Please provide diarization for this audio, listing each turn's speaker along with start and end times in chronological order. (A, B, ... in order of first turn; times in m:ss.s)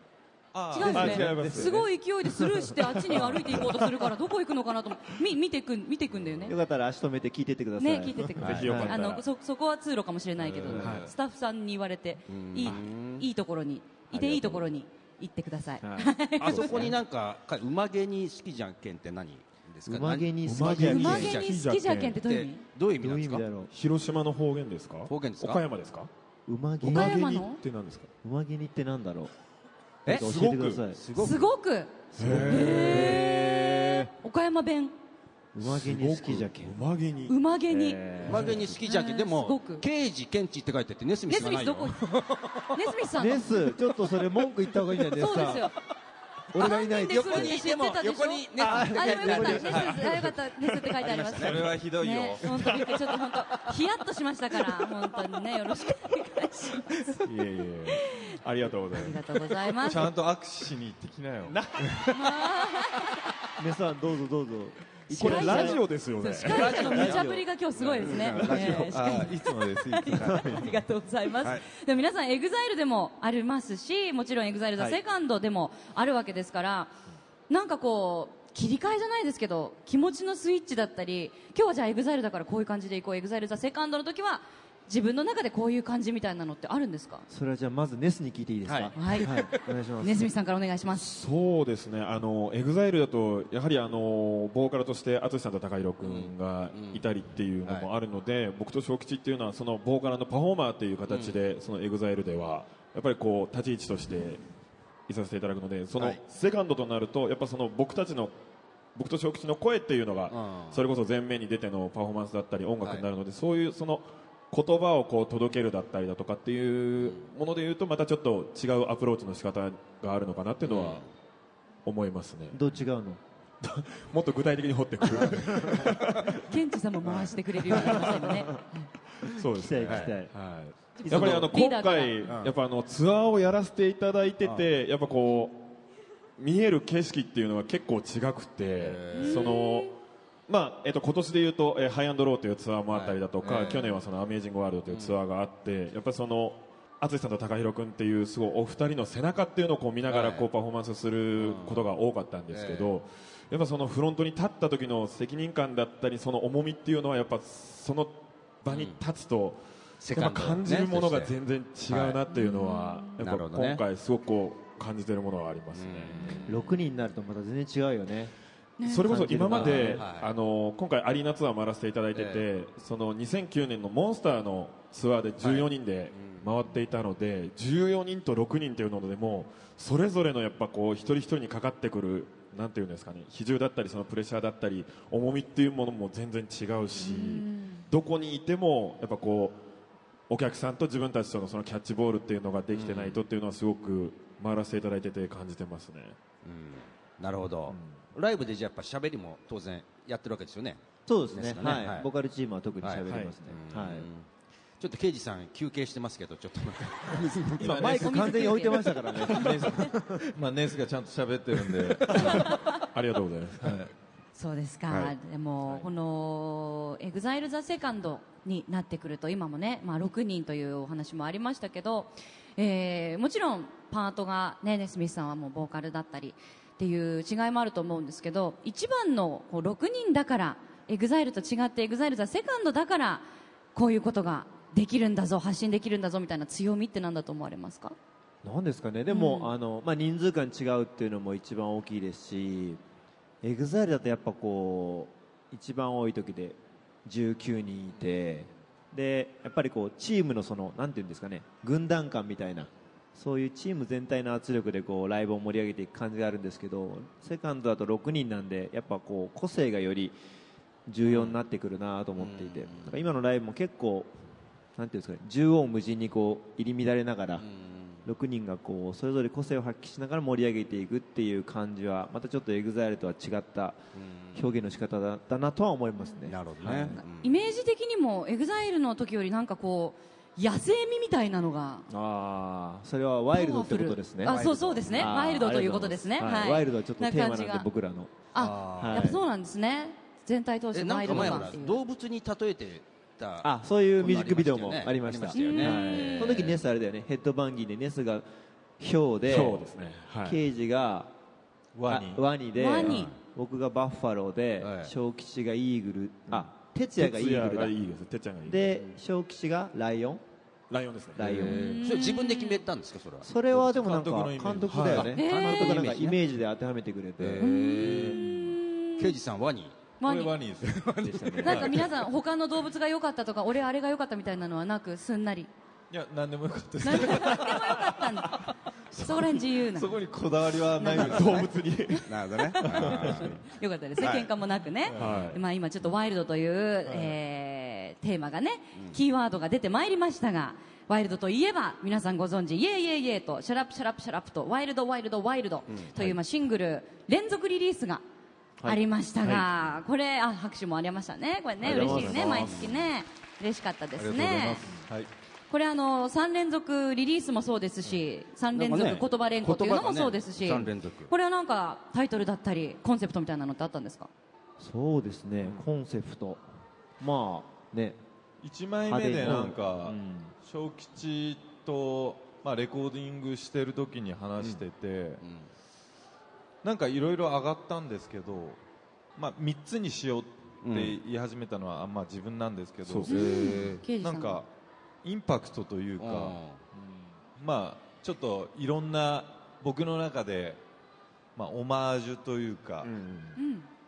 0:00.5-0:01.6 A
0:00.7-0:06.6 B
0:00.8-0:01.8 C
0:00.9-0:04.0 D
0:06.5-0:09.0 C
0:07.8-0:16.8 B
0:08.4-0:09.2 D
0:08.4-0:08.7 E
0:10.7-0:11.1 D
0:10.7-0:11.1 A
0:10.7-0:11.0 C
0:12.3-0:13.3 E
0:14.1-0:14.7 C
0:15.8-0:17.0 C
0:16.4-0:21.6 E
0:19.9-0:21.4 C
0:20.4-0:22.2 D
0:20.8-0:22.6 B
0:22.2-0:23.5 E
0:23.0-0:23.7 C
0:23.7-0:26.1 D
0:25.1-0:25.6 E
0:26.5-0:27.2 C
0:26.8-0:28.1 D
0:26.8-0:27.6 B
0:28.2-0:29.3 C
0:30.0-0:30.3 E
0:30.1-0:31.1 C
0:30.2-0:30.8 A
0:30.9-0:31.5 E
0:31.2-0:34.9 B
0:32.1-0:34.1 C
0:32.2-0:33.2 D
0:32.8-0:33.2 E
0:35.5-0:36.8 C
0:35.6-0:37.4 D
0:37.3-0:38.0 B
0:37.7-0:38.8 C
0:38.2-0:42.7 E
0:38.8-0:39.8 B
0:41.3-0:42.0 B
0:42.7-0:43.7 B
0:43.2-0:45.7 C
0:45.1-0:45.8 B
0:46.5-0:47.6 C
0:46.6-0:57.2 B
0:46.6-0:50.3 E
0:48.6-0:49.9 C
0:49.9-0:51.0 D
0:51.0-0:51.7 E
0:51.4-0:52.5 A
0:52.4-0:53.2 D
0:57.2-0:59.7 D
0:57.9-0:58.3 B
0:58.9-1:00.1 B
0:59.8-1:01.6 A
1:01.5-1:02.0 C
1:02.1-1:03.2 B
1:03.6-1:05.9 C
1:05.1-1:16.9 B
1:05.2-1:06.6 D
1:06.4-1:09.0 E
1:06.5-1:07.4 C
1:08.0-1:10.8 A
1:08.5-1:08.8 C
1:17.5-1:27.3 B
1:27.3-1:30.3 C
1:28.6-1:29.6 E
1:29.0-1:29.3 B
1:30.0-1:31.1 B
1:30.9-1:44.4 D
1:36.0-1:37.1 E
1:41.1-1:41.5 E
1:45.1-1:48.3 D
1:49.0-2:01.0 D
1:50.3-1:50.8 E
2:00.6-2:01.1 E
2:01.9-2:02.6 D
2:02.5-2:03.2 C
2:03.6-2:08.6 D
2:06.4-2:08.9 B
2:09.2-2:15.8 D
2:09.6-2:10.3 C
2:09.9-2:10.1 E
2:11.0-2:12.2 B
2:11.0-2:11.5 C
2:12.2-2:12.6 E
2:14.4-2:14.7 E
2:16.4-2:20.0 D
2:18.8-2:19.5 E
2:19.1-2:19.9 B
2:20.5-2:46.4 D
2:22.9-2:24.0 E
2:24.9-2:25.2 E
2:30.0-2:30.5 E
2:31.4-2:31.9 E
2:32.5-2:33.0 E
2:38.7-2:39.0 E
2:40.0-2:41.3 E
2:41.9-2:42.2 E
2:42.3-2:43.1 B
2:43.2-2:43.8 E
2:45.7-2:46.8 E
2:46.4-2:48.3 C
2:48.8-2:49.1 B
2:48.8-3:09.6 D
2:49.1-2:50.1 C
2:49.5-2:50.3 E
2:52.1-2:52.5 E
2:55.4-2:56.5 E
3:07.0-3:07.8 B
3:10.3-3:16.2 D
3:12.7-3:13.2 E
3:16.4-3:22.1 E
3:21.1-3:24.1 C
3:22.8-3:24.3 E
3:23.1-3:23.4 D
3:24.8-3:28.0 E
3:27.6-3:30.3 C
3:27.6-3:28.3 D
3:27.9-3:29.9 B
3:29.2-3:29.8 A
3:30.3-3:32.5 A
3:32.0-3:33.8 D
3:32.2-3:32.7 B
3:33.6-3:33.9 A
3:34.4-3:58.0 B
3:34.9-3:35.1 E
3:58.4-4:02.8 C
3:59.1-3:59.5 B
4:03.4-4:20.2 C
4:20.9-4:24.2 C
4:21.0-4:21.4 E
4:22.2-4:23.1 E
4:24.8-4:27.5 C
4:27.4-4:28.0 E
4:28.0-4:33.8 C
4:34.0-4:34.6 E
4:34.4-4:37.0 C
4:36.3-4:37.4 E
4:37.1-4:41.9 B
4:41.9-4:49.2 C
4:43.3-4:47.7 B
4:44.3-4:45.2 E
4:48.3-4:51.8 B
4:48.4-4:49.1 E
4:50.7-4:56.6 E
4:51.1-4:51.5 C
4:53.4-4:58.2 C
4:55.3-4:56.4 B
4:58.8-4:59.6 C
4:59.2-5:00.4 D
5:00.2-5:01.1 C
5:01.8-5:02.2 A
5:01.9-5:07.8 C
5:02.6-5:03.1 B
5:02.8-5:03.2 E
5:04.6-5:04.9 E
5:06.9-5:08.8 D
5:08.4-5:10.2 C
5:10.7-5:11.5 D
5:11.2-5:11.7 C
5:11.2-5:13.4 E
5:11.4-5:12.6 B
5:13.2-5:18.5 C
5:13.5-5:15.2 A
5:14.7-5:15.1 D
5:14.9-5:16.2 E
5:15.1-5:15.9 B
5:17.2-5:18.2 E
5:17.4-5:19.2 B
5:19.0-5:19.8 E
5:20.0-5:20.4 B
5:20.0-5:20.9 A
5:20.6-5:21.9 E
5:21.0-5:21.6 C
5:21.4-5:25.5 B
5:21.4-5:22.0 A
5:25.9-5:31.5 A
5:26.8-5:30.0 B
5:30.8-5:32.0 B
5:30.8-5:33.4 D
5:32.1-5:33.4 E
5:32.6-5:48.0 B
5:34.0-5:34.3 E
5:34.9-5:35.2 A
5:35.0-5:35.4 D
5:48.6-5:49.5 C
5:48.6-5:54.7 B
5:51.6-5:52.7 C
5:51.6-5:52.9 E
5:51.8-5:52.4 D
5:54.0-5:55.1 A
5:55.5-6:04.1 B
5:58.5-6:01.1 E
6:04.6-6:06.4 C
6:07.0-6:08.0 C
6:08.4-6:15.2 A
6:08.8-6:10.3 C
6:14.4-6:14.6 E
6:15.2-6:15.5 E
6:16.6-6:18.6 A
6:19.2-6:24.5 A
6:20.6-6:21.0 E
6:22.8-6:23.2 D
6:23.1-6:24.4 B
6:23.1-6:23.8 E
6:25.0-6:26.4 A
6:26.0-6:26.6 E
6:27.4-6:30.6 A
6:31.4-6:32.9 A
6:32.8-6:33.4 D
6:33.4-6:33.7 B